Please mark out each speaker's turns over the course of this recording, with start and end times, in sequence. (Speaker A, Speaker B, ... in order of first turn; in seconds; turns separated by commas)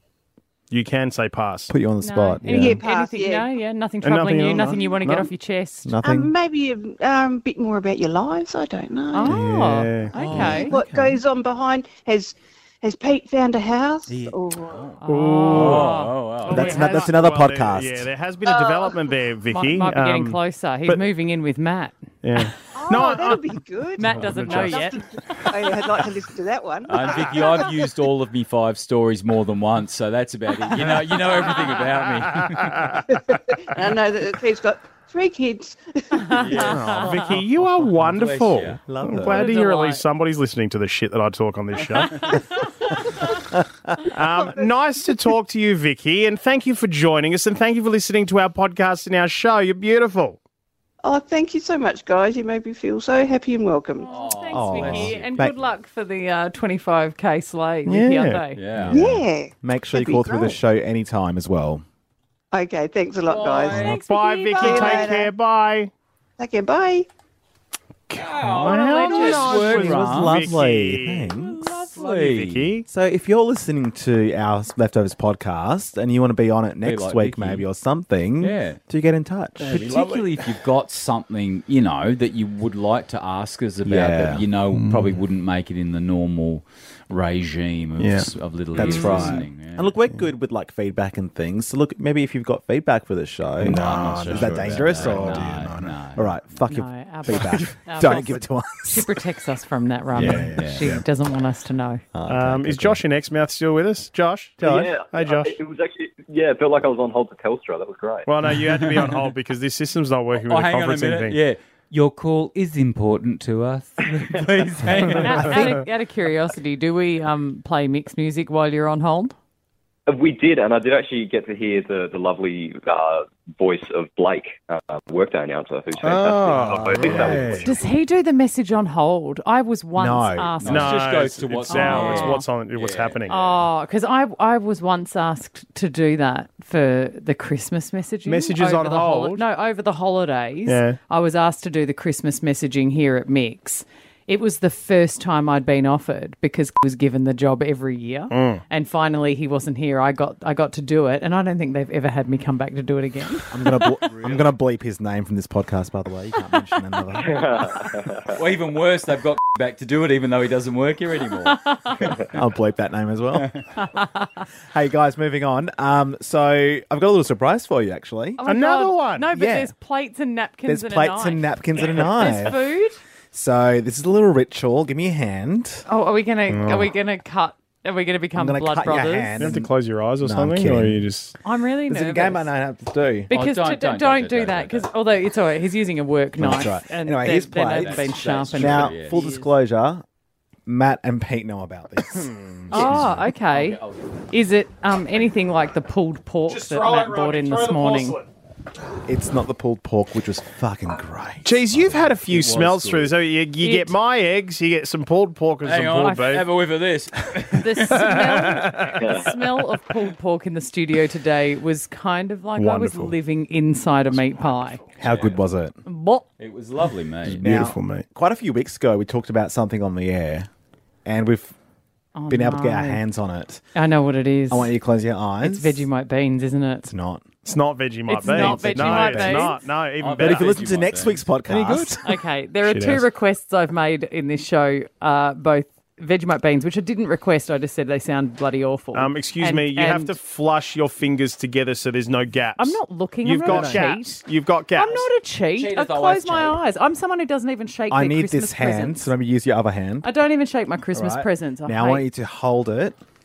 Speaker A: 0.7-1.7, Speaker B: 1.7-2.8, Speaker C: 2.0-5.9, Speaker D: 2.5-3.5, Speaker A: 4.0-5.3, Speaker B: 5.8-6.3, Speaker D: 6.0-9.4, Speaker C: 9.1-10.7, Speaker B: 9.3-11.2, Speaker A: 9.7-10.2, Speaker E: 10.1-10.8, Speaker D: 10.3-14.9, Speaker E: 14.1-16.7, Speaker C: 15.0-17.1, Speaker A: 15.1-16.0, Speaker A: 16.5-21.0, Speaker B: 16.5-18.1, Speaker D: 18.5-19.1, Speaker C: 19.5-22.0, Speaker A: 22.2-23.5, Speaker D: 22.7-27.7, Speaker C: 24.0-25.0, Speaker A: 24.2-24.8, Speaker E: 26.9-33.0, Speaker A: 27.0-27.3, Speaker A: 31.3-31.7, Speaker A: 32.7-33.0, Speaker D: 33.2-36.7, Speaker C: 36.2-37.1, Speaker E: 36.3-37.2, Speaker A: 36.5-42.3, Speaker E: 37.9-38.8, Speaker B: 38.8-39.5, Speaker C: 39.3-40.0, Speaker C: 42.1-43.2, Speaker B: 43.5-43.9, Speaker A: 44.1-50.4, Speaker D: 51.0-54.1, Speaker C: 54.0-58.6, Speaker E: 54.0-55.4, Speaker B: 54.5-55.6, Speaker A: 57.9-58.4, Speaker E: 58.5-59.1, Speaker B: 58.8-61.8, Speaker D: 58.9-60.6, Speaker D: 62.5-63.9, Speaker E: 63.2-64.0, Speaker C: 63.7-65.2, Speaker A: 63.9-65.9, Speaker D: 64.6-65.3, Speaker D: 66.4-67.1, Speaker A: 68.1-72.9, Speaker E: 68.2-70.5, Speaker B: 69.2-71.7, Speaker E: 71.5-72.7, Speaker B: 72.9-79.9, Speaker E: 76.8-77.7, Speaker E: 78.4-78.8, Speaker A: 79.6-80.3, Speaker E: 79.7-89.9, Speaker B: 83.8-84.5, Speaker A: 84.7-85.2, Speaker A: 88.0-89.4, Speaker B: 88.8-99.1, Speaker E: 93.6-96.4, Speaker A: 93.6-95.8, Speaker C: 96.6-102.0, Speaker B: 100.1-101.0, Speaker E: 100.2-100.9, Speaker B: 102.1-103.0, Speaker A: 102.3-105.5, Speaker B: 104.6-104.9, Speaker F: 104.6-108.4, Speaker A: 108.3-111.4, Speaker E: 108.8-109.2, Speaker E: 110.3-115.7, Speaker C: 115.1-119.3, Speaker F: 120.1-127.9, Speaker A: 126.0-127.6, Speaker B: 126.6-127.7, Speaker C: 127.6-131.1, Speaker B: 130.0-130.6, Speaker E: 130.6-133.6, Speaker A: 130.6-133.4, Speaker C: 131.7-132.4, Speaker C: 133.3-153.5, Speaker A: 138.2-139.4, Speaker A: 140.7-141.0, Speaker A: 148.3-148.6, Speaker B: 153.5-157.4, Speaker E: 154.1-154.6, Speaker F: 157.2-158.4, Speaker E: 158.3-161.6, Speaker C: 161.4-162.1, Speaker B: 162.2-163.6, Speaker E: 163.3-163.6, Speaker C: 163.8-164.2, Speaker B: 164.7-168.4, Speaker C: 168.4-173.0, Speaker A: 168.4-169.3, Speaker B: 169.3-169.7, Speaker B: 170.7-172.6, Speaker B: 173.3-175.9, Speaker C: 175.9-179.5, Speaker A: 176.5-176.9, Speaker B: 178.3-181.0, Speaker A: 179.4-181.3, Speaker C: 181.4-182.5, Speaker B: 181.9-183.3, Speaker C: 183.3-189.5, Speaker E: 183.3-184.9, Speaker B: 186.4-190.0, Speaker E: 187.8-189.2, Speaker B: 190.7-193.3, Speaker E: 192.7-194.3, Speaker C: 192.7-193.8, Speaker C: 194.3-198.2, Speaker A: 196.5-198.3, Speaker B: 199.1-201.6, Speaker A: 201.4-206.5, Speaker E: 202.0-203.2, Speaker C: 203.6-204.0, Speaker E: 205.6-208.1, Speaker C: 207.6-214.8, Speaker A: 207.9-209.0, Speaker F: 209.0-209.4, Speaker A: 212.6-213.2, Speaker B: 215.0-215.8, Speaker E: 215.0-215.4, Speaker C: 215.9-216.3, Speaker E: 216.4-217.6, Speaker A: 217.3-218.1, Speaker B: 217.4-220.5, Speaker B: 221.1-221.5, Speaker C: 222.2-223.1, Speaker B: 222.3-223.6, Speaker C: 223.7-224.8, Speaker B: 224.5-225.9, Speaker C: 225.4-226.9, Speaker B: 226.8-227.3, Speaker A: 227.4-230.5, Speaker C: 228.1-229.6, Speaker B: 228.2-229.6, Speaker E: 230.0-231.2, Speaker B: 230.2-232.0, Speaker A: 231.5-232.0, Speaker C: 232.0-240.2, Speaker A: 232.6-233.1, Speaker A: 238.9-245.1, Speaker C: 242.6-244.2, Speaker B: 243.4-243.9, Speaker C: 244.8-249.1, Speaker E: 245.6-246.6, Speaker B: 247.9-250.1, Speaker C: 250.0-252.1, Speaker B: 250.9-253.0